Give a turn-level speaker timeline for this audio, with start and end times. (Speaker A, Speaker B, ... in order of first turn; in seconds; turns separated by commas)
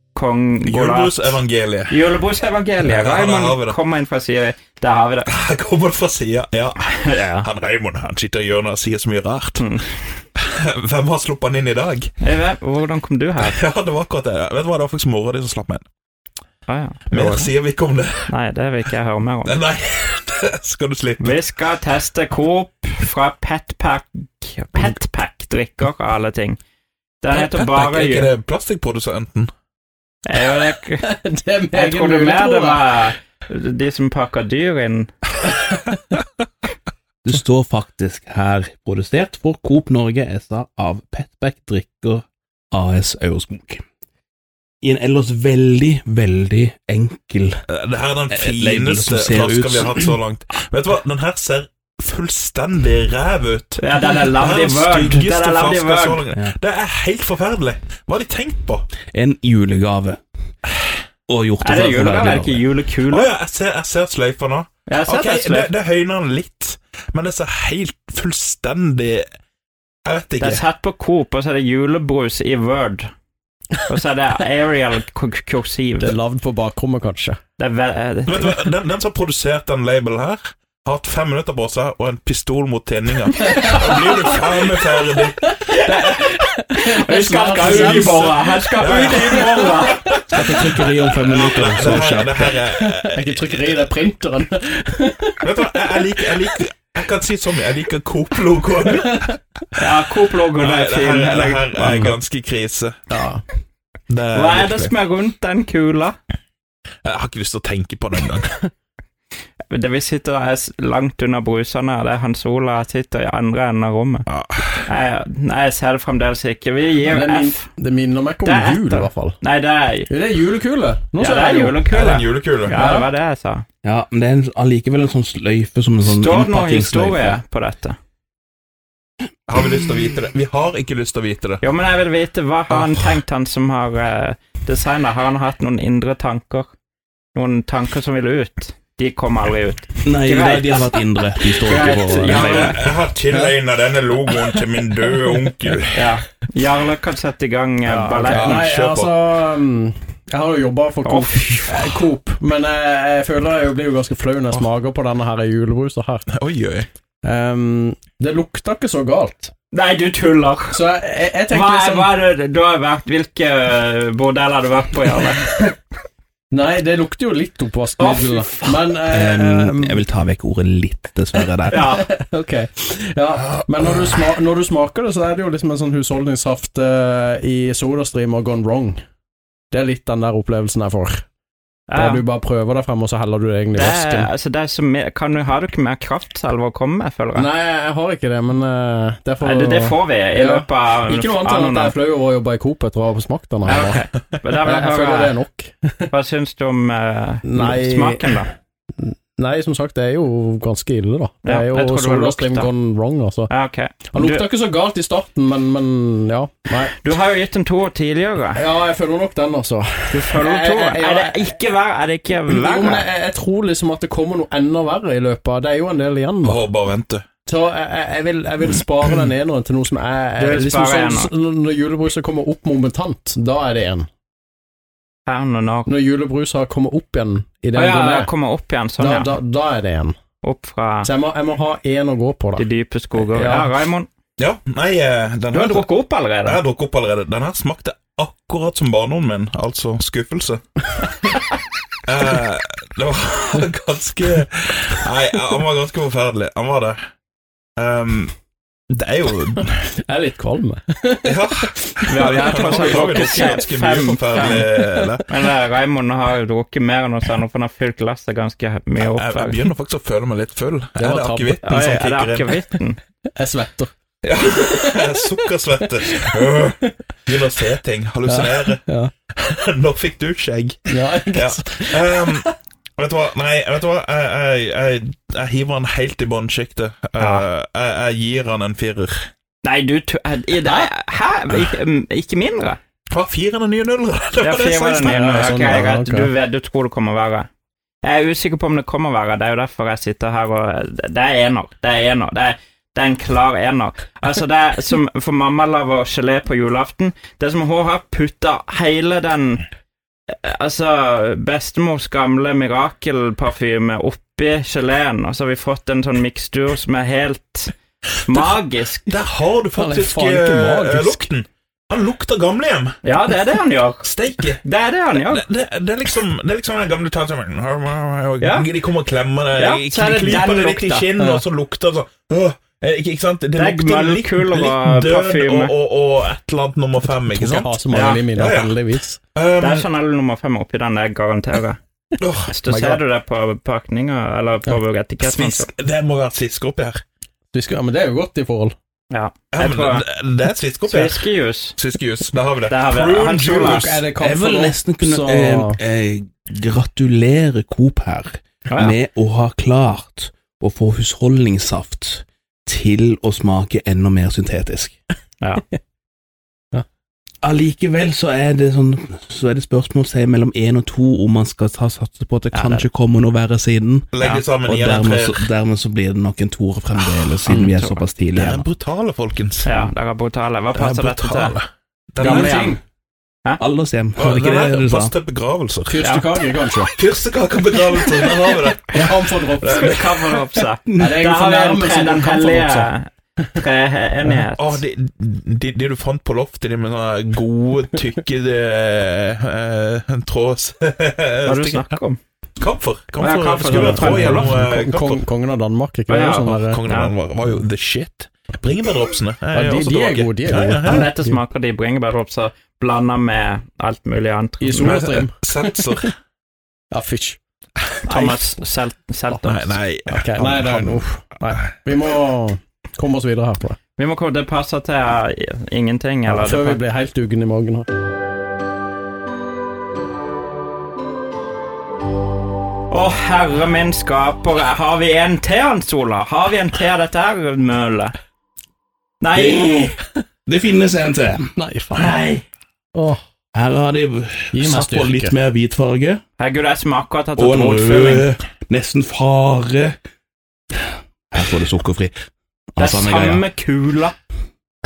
Speaker A: 0.1-1.4, Speaker B: 0.7-2.0, Speaker A: 1.9-5.3, Speaker B: 2.8-3.8, Speaker B: 5.3-9.7, Speaker A: 6.9-7.5, Speaker A: 9.6-9.9, Speaker B: 10.4-12.1, Speaker A: 12.2-13.6, Speaker B: 13.4-15.8, Speaker A: 16.7-17.5, Speaker B: 17.1-18.3, Speaker A: 18.3-19.6, Speaker B: 19.4-21.4, Speaker A: 21.2-26.6, Speaker A: 27.2-28.3, Speaker B: 27.3-29.5, Speaker A: 30.3-31.1, Speaker C: 30.6-33.1, Speaker A: 31.7-35.1, Speaker D: 37.2-43.8, Speaker D: 44.8-47.6, Speaker B: 47.7-58.9, Speaker D: 48.3-50.1, Speaker A: 53.8-56.2, Speaker D: 59.1-60.2, Speaker D: 61.3-62.6, Speaker A: 61.6-63.3, Speaker B: 63.1-69.3, Speaker A: 64.9-65.7, Speaker B: 70.1-70.6, Speaker A: 70.4-73.1, Speaker A: 73.9-76.2, Speaker C: 76.0-77.4, Speaker A: 77.6-78.6, Speaker B: 78.3-85.5, Speaker C: 83.4-84.3, Speaker C: 85.5-95.9, Speaker A: 86.8-90.4, Speaker B: 87.6-88.2, Speaker B: 88.8-93.8, Speaker B: 95.4-99.8, Speaker A: 99.8-101.7, Speaker B: 100.6-103.0, Speaker C: 101.8-102.2, Speaker C: 103.1-103.4, Speaker B: 104.1-104.9, Speaker A: 104.3-106.2, Speaker B: 107.0-108.6, Speaker A: 109.7-114.3, Speaker B: 114.3-114.9, Speaker A: 114.8-117.7, Speaker C: 117.1-119.4, Speaker A: 118.5-120.1, Speaker C: 120.1-121.9, Speaker A: 121.2-123.7, Speaker B: 121.9-122.8, Speaker C: 122.7-123.1, Speaker D: 123.8-127.4, Speaker A: 126.0-128.0, Speaker B: 129.5-131.6, Speaker A: 131.6-136.7, Speaker B: 132.7-133.2, Speaker A: 137.3-140.9, Speaker D: 140.1-142.7, Speaker A: 141.6-142.9, Speaker C: 142.1-142.8, Speaker B: 142.3-146.1, Speaker A: 145.9-148.7, Speaker C: 147.8-156.2, Speaker B: 148.2-149.1, Speaker A: 151.0-151.9, Speaker B: 156.3-156.9, Speaker C: 157.2-159.5, Speaker A: 159.7-160.8, Speaker C: 160.7-162.1, Speaker A: 161.5-165.7, Speaker C: 166.5-170.0, Speaker A: 168.0-168.8, Speaker D: 169.1-171.9, Speaker A: 171.7-172.1, Speaker C: 171.8-179.0, Speaker C: 179.7-181.2, Speaker A: 181.9-182.2, Speaker C: 181.9-184.3, Speaker A: 183.7-187.5, Speaker C: 187.3-194.1, Speaker A: 189.4-192.0, Speaker A: 193.6-195.4, Speaker C: 194.6-196.1, Speaker A: 196.1-198.5, Speaker C: 197.4-198.4, Speaker C: 199.0-203.5, Speaker A: 201.4-202.7, Speaker A: 203.5-204.4, Speaker C: 204.1-207.0, Speaker A: 206.9-208.6, Speaker C: 208.6-211.5, Speaker A: 210.1-213.1, Speaker C: 212.5-216.6, Speaker B: 216.4-217.2, Speaker C: 217.5-224.1, Speaker A: 220.4-221.3, Speaker A: 225.3-225.9, Speaker C: 225.9-228.3, Speaker A: 227.7-229.3, Speaker C: 229.0-230.2, Speaker A: 230.4-231.1, Speaker C: 231.0-232.7, Speaker A: 232.6-234.1, Speaker C: 233.2-233.7, Speaker B: 234.4-235.9, Speaker A: 235.5-236.6, Speaker B: 236.4-240.6, Speaker B: 242.1-247.0, Speaker B: 247.8-248.3, Speaker B: 248.9-249.8, Speaker C: 250.0-251.6, Speaker B: 251.2-255.2, Speaker A: 252.1-254.7, Speaker C: 252.2-253.7, Speaker C: 254.4-255.2, Speaker A: 255.2-259.6, Speaker B: 259.0-262.5, Speaker C: 261.0-261.8, Speaker A: 261.6-263.0, Speaker C: 263.4-263.9, Speaker B: 264.2-268.8, Speaker C: 265.0-265.3, Speaker C: 266.1-266.7, Speaker C: 268.3-269.1, Speaker B: 269.4-279.2, Speaker C: 270.9-272.5, Speaker A: 277.2-277.4, Speaker A: 279.6-282.8, Speaker B: 283.1-285.9, Speaker A: 284.4-287.5, Speaker C: 285.0-286.3, Speaker A: 288.0-299.6, Speaker A: 300.3-307.7, Speaker A: 308.2-309.1, Speaker B: 309.1-313.0, Speaker C: 309.8-311.3, Speaker A: 313.0-314.1, Speaker B: 314.0-314.6, Speaker A: 314.6-315.4, Speaker B: 315.1-327.8, Speaker A: 318.4-318.7, Speaker A: 319.6-321.4, Speaker A: 323.6-325.7, Speaker C: 327.2-329.2, Speaker A: 327.9-328.3, Speaker B: 328.3-328.8, Speaker B: 329.4-329.9, Speaker A: 329.6-331.8, Speaker B: 332.2-333.0, Speaker A: 332.5-335.7, Speaker B: 335.2-337.0, Speaker C: 337.5-338.8, Speaker A: 339.1-340.1, Speaker B: 339.5-341.2, Speaker A: 340.9-341.8, Speaker B: 341.8-344.0, Speaker A: 342.7-344.0, Speaker C: 343.5-345.8, Speaker D: 344.2-355.0, Speaker A: 348.7-348.9, Speaker D: 357.4-364.1, Speaker B: 364.1-365.4, Speaker D: 364.6-368.7, Speaker A: 367.5-368.0, Speaker B: 368.4-369.7, Speaker A: 369.6-371.6, Speaker B: 370.8-372.7, Speaker A: 372.2-372.8, Speaker C: 372.2-372.8, Speaker D: 373.6-375.1, Speaker B: 374.2-376.2, Speaker C: 375.9-376.9, Speaker A: 376.0-376.3, Speaker B: 376.8-380.4, Speaker C: 378.9-380.0, Speaker A: 379.6-384.8, Speaker C: 380.9-382.9, Speaker B: 384.6-391.9, Speaker A: 391.4-392.2, Speaker B: 392.6-395.2, Speaker A: 393.2-394.6, Speaker C: 393.6-396.8, Speaker A: 396.1-397.1, Speaker B: 396.4-401.1, Speaker C: 399.5-401.4, Speaker A: 400.8-405.1, Speaker C: 404.6-406.1, Speaker B: 404.8-406.1, Speaker C: 406.9-407.4, Speaker A: 408.1-409.8, Speaker C: 408.1-408.6, Speaker B: 409.4-411.5, Speaker C: 410.1-413.8, Speaker A: 414.0-416.8, Speaker C: 416.3-417.9, Speaker A: 422.9-428.1, Speaker A: 429.2-430.0, Speaker D: 429.3-429.8, Speaker D: 430.5-431.5, Speaker C: 431.6-432.2, Speaker A: 431.9-432.4, Speaker D: 433.5-436.2, Speaker C: 434.5-435.4, Speaker A: 436.4-438.3, Speaker D: 437.4-440.0, Speaker D: 441.3-442.1, Speaker D: 442.8-443.4, Speaker A: 442.8-444.1